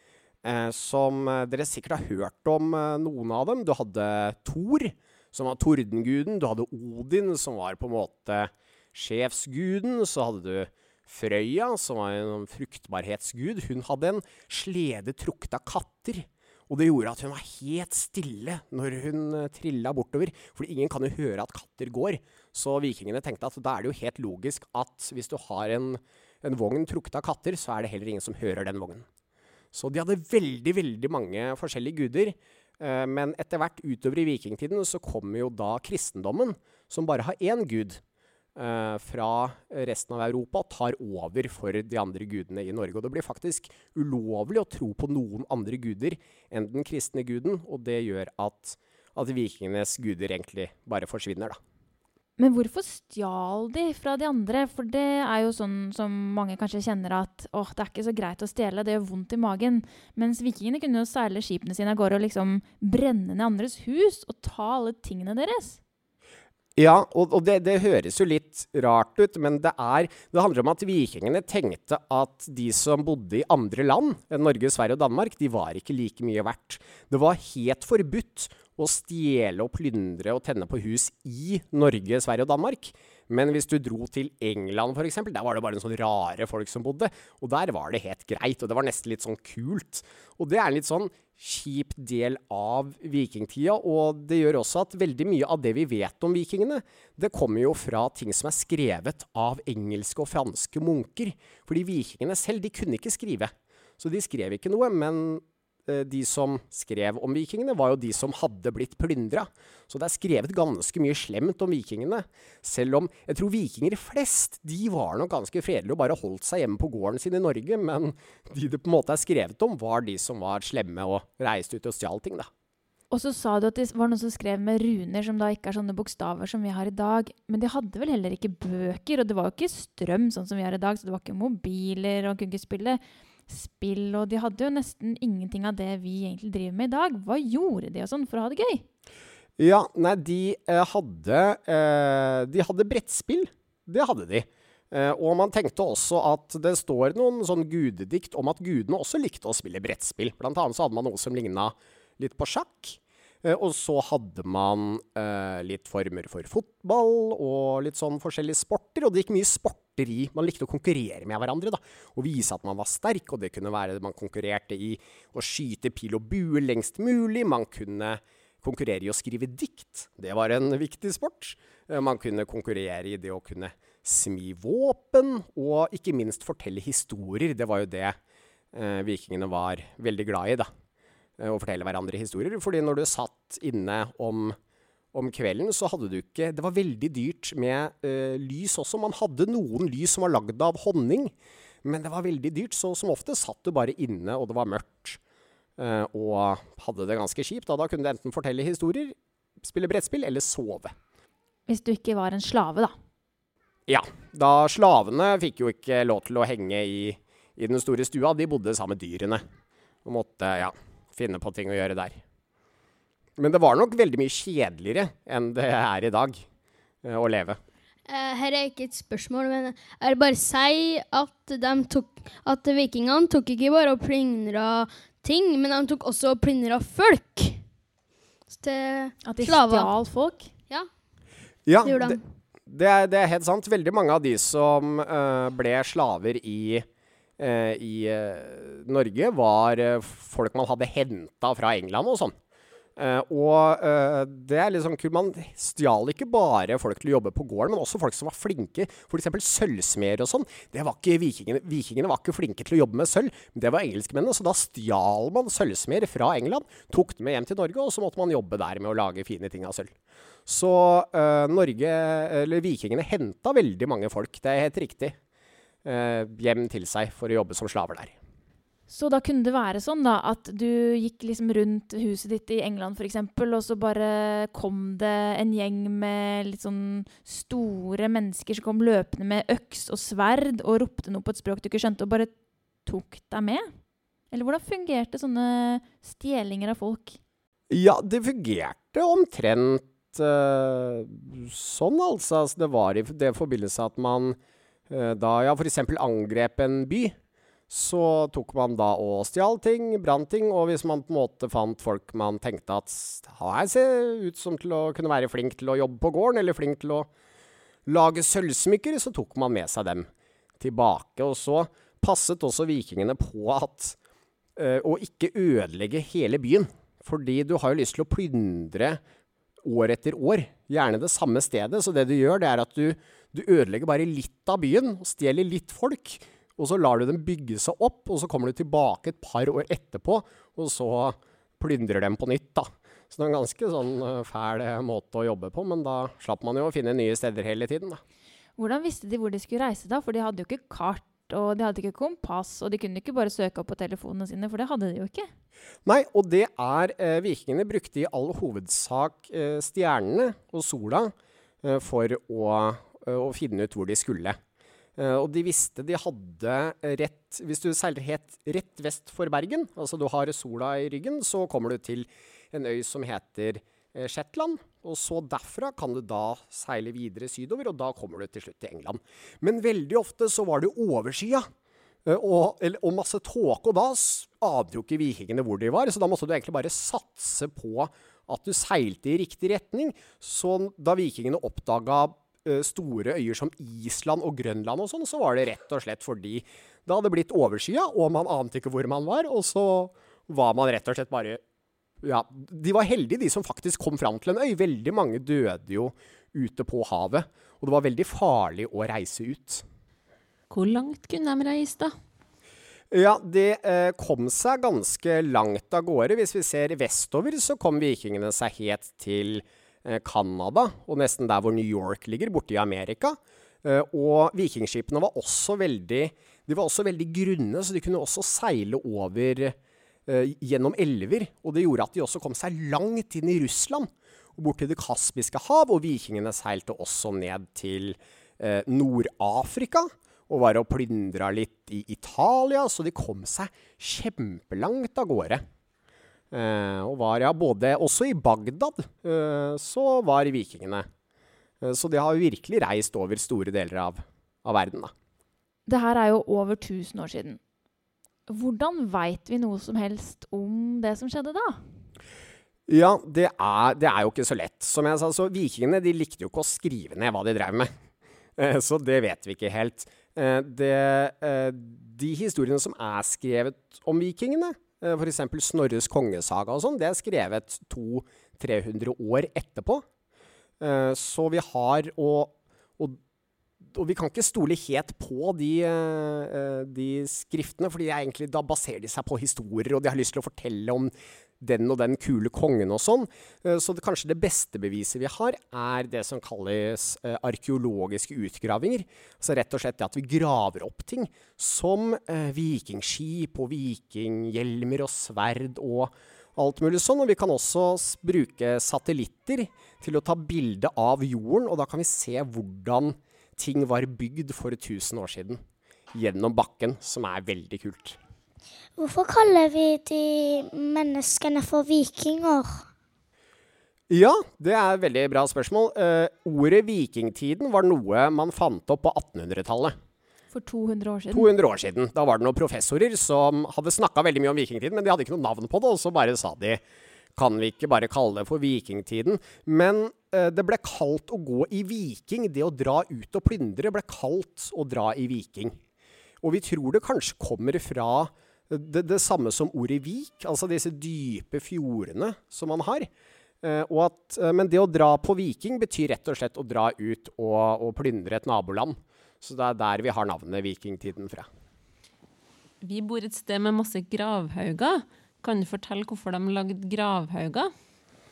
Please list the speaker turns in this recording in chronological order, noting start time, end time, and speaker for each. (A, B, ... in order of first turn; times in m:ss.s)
0:00.4-0:29.0 A
0:29.7-0:38.0 A
0:38.6-0:51.6 A
0:52.4-1:05.8 B
1:06.8-2:02.5 A
2:03.1-2:18.8 B
2:19.6-2:58.2 A
2:58.7-3:00.7 A
3:01.4-3:04.6 A
3:05.1-3:15.2 A
3:15.8-3:20.9 A
3:21.7-3:22.9 B
3:23.9-3:29.4 A
3:30.0-3:32.2 A
3:33.4-3:36.4 A
3:37.0-3:37.6 A
3:38.1-3:47.6 C
3:48.5-3:49.9 C
3:49.2-3:50.5 B
3:51.6-3:56.8 A
3:51.8-3:52.2 C
3:57.4-4:02.3 A
4:03.0-4:19.9 A
4:20.4-4:25.1 A
4:25.8-4:28.1 A
4:28.9-4:42.3 B
4:42.8-4:43.7 B
4:44.3-4:47.2 B
4:47.7-4:54.4 A
4:54.9-4:57.1 A
4:57.7-5:07.1 A
5:07.8-5:10.1 A
5:10.6-5:14.0 A
5:14.6-5:19.0 A
5:19.6-5:38.0 A
5:38.6-5:45.3 B
5:45.8-5:54.4 A
5:55.0-6:11.5 A
6:12.0-6:31.4 A
6:32.0-6:39.6 A
6:40.5-6:41.9 D
6:42.9-6:59.6 A
7:00.1-7:15.4 A
7:16.3-7:20.8 A
7:21.6-7:24.9 A
7:25.6-7:27.4 B
7:28.3-7:31.8 B
7:32.7-7:37.7 A
7:38.4-7:49.8 A
7:50.6-7:53.0 A
7:53.7-8:25.4 A
8:25.9-8:28.0 A
8:28.8-8:32.6 E
8:33.9-8:39.7 A
8:40.3-8:41.3 B
8:41.1-8:46.6 A
8:47.2-8:55.6 A
8:56.2-9:02.9 A
9:03.4-9:11.3 A
9:12.6-9:17.5 D